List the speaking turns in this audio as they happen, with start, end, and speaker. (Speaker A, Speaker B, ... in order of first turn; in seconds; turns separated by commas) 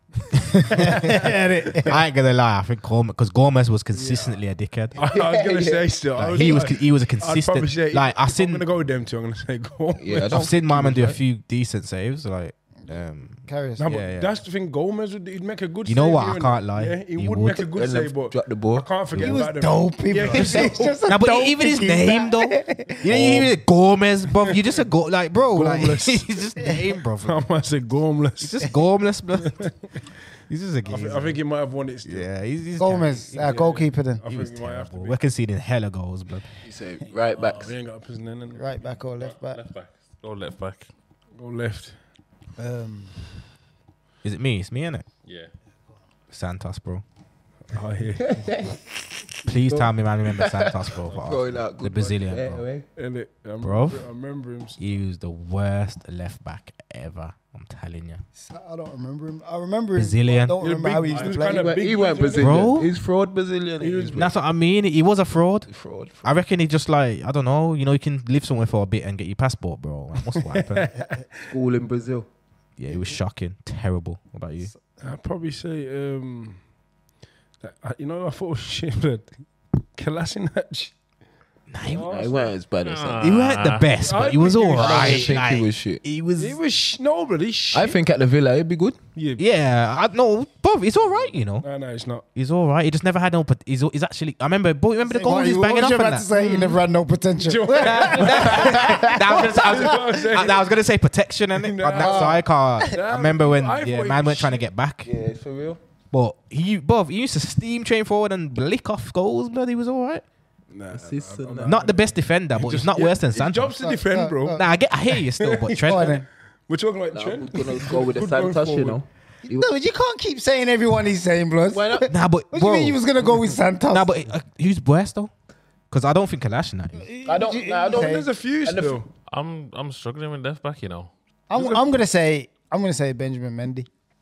Speaker A: 0.6-2.0, Speaker B: 0.7-1.1, Speaker B: 1.9-5.0, Speaker A: 3.9-4.4, Speaker C: 5.0-10.5, Speaker D: 5.0-5.9, Speaker B: 6.2-8.7, Speaker D: 10.0-11.2, Speaker B: 10.3-14.4, Speaker A: 13.4-13.9, Speaker C: 13.8-21.0, Speaker B: 15.9-17.7, Speaker D: 17.8-18.9, Speaker A: 19.1-23.4, Speaker B: 20.3-27.5, Speaker D: 23.1-23.5, Speaker C: 25.5-28.7, Speaker B: 28.4-29.7, Speaker C: 29.4-29.7, Speaker B: 30.5-31.4, Speaker C: 30.9-32.3, Speaker B: 32.0-33.6, Speaker A: 32.8-34.2, Speaker C: 33.3-35.2, Speaker B: 34.2-36.5, Speaker D: 36.6-37.7, Speaker C: 37.5-38.6, Speaker A: 38.5-39.6, Speaker E: 39.2-40.9, Speaker C: 41.4-42.0, Speaker A: 42.6-43.3, Speaker B: 44.2-45.0, Speaker E: 45.2-45.5, Speaker B: 46.3-47.0, Speaker C: 47.7-48.5, Speaker D: 48.2-48.8, Speaker B: 49.5-52.6, Speaker D: 49.6-52.9, Speaker C: 53.0-54.8, Speaker B: 53.6-54.1, Speaker B: 54.8-58.2, Speaker A: 58.4-61.7, Speaker B: 60.0-60.6, Speaker C: 60.6-62.8, Speaker E: 61.1-61.3, Speaker D: 61.4-64.3, Speaker B: 62.4-62.9, Speaker C: 63.8-64.2, Speaker B: 64.1-65.7, Speaker D: 65.7-66.4, Speaker B: 66.2-70.9, Speaker C: 70.4-71.3, Speaker D: 71.4-72.3, Speaker B: 72.8-74.7, Speaker C: 75.0-76.6, Speaker C: 77.6-79.3, Speaker C: 79.9-81.0, Speaker B: 81.7-82.1, Speaker C: 81.9-82.6, Speaker D: 81.9-83.4, Speaker E: 82.8-83.9, Speaker B: 83.2-86.6, Speaker C: 84.0-85.5, Speaker D: 84.7-86.0, Speaker C: 86.4-88.0, Speaker D: 87.7-89.0, Speaker C: 89.2-89.5, Speaker B: 89.4-91.7, Speaker C: 91.6-92.2, Speaker B: 92.3-96.7, Speaker A: 95.0-99.9, Speaker C: 96.4-96.8, Speaker C: 97.4-100.8, Speaker B: 97.8-105.1, Speaker C: 101.5-104.6, Speaker A: 102.0-103.0, Speaker D: 105.0-105.8, Speaker B: 106.1-110.2, Speaker C: 110.7-114.6, Speaker D: 110.9-111.9, Speaker B: 111.6-113.8, Speaker A: 113.8-114.7, Speaker B: 114.5-116.2, Speaker C: 115.4-119.0, Speaker A: 115.8-116.2, Speaker D: 117.1-119.7, Speaker A: 119.5-124.1, Speaker D: 121.7-122.1, Speaker B: 122.1-123.0, Speaker B: 123.9-125.3, Speaker B: 125.9-127.0, Speaker A: 127.0-128.3, Speaker D: 127.3-129.0, Speaker C: 127.9-129.1, Speaker E: 129.3-131.1, Speaker A: 131.5-133.9, Speaker C: 131.6-131.9